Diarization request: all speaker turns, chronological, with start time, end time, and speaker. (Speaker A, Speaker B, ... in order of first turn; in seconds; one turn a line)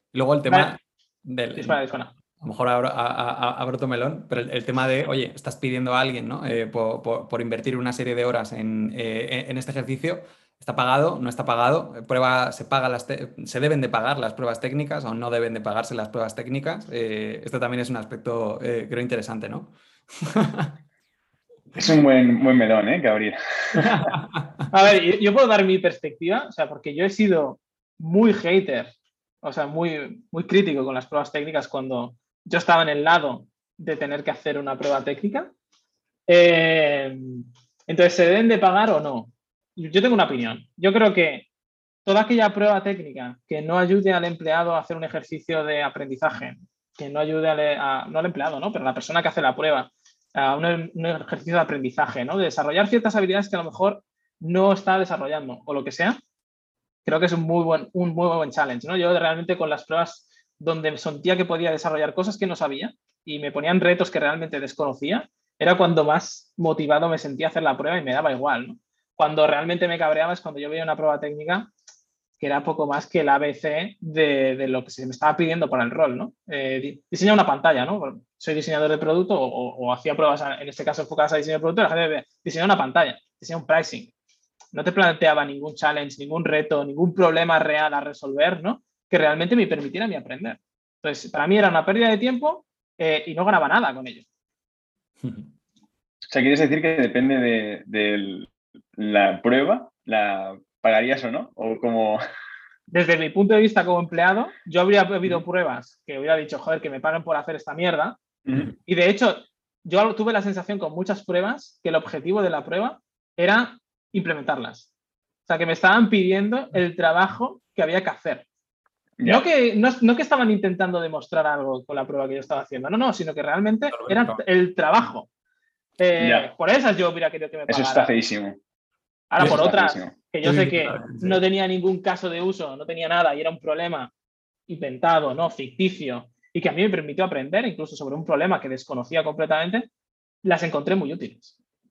Speaker A: 0.1-1.8
Speaker B: 1.6-2.1
Speaker A: 2.4-20.7
Speaker C: 21.8-24.1
Speaker A: 23.8-24.3
Speaker B: 24.7-35.5
Speaker B: 36.3-41.5
Speaker B: 42.1-56.2
Speaker B: 57.0-71.7
Speaker B: 72.4-84.1
Speaker B: 84.7-94.2
Speaker A: 95.2-95.5
Speaker C: 96.3-102.2
Speaker B: 102.9-108.2
Speaker B: 108.9-114.9
Speaker B: 115.5-118.5
Speaker C: 119.2-119.5
Speaker B: 119.2-125.3
Speaker A: 123.9-124.4
Speaker B: 126.0-128.1
Speaker C: 126.2-126.5
Speaker C: 127.7-128.6
Speaker B: 129.3-134.1
Speaker C: 129.4-130.1
Speaker A: 130.4-131.4
Speaker B: 134.7-139.9
Speaker B: 140.4-141.6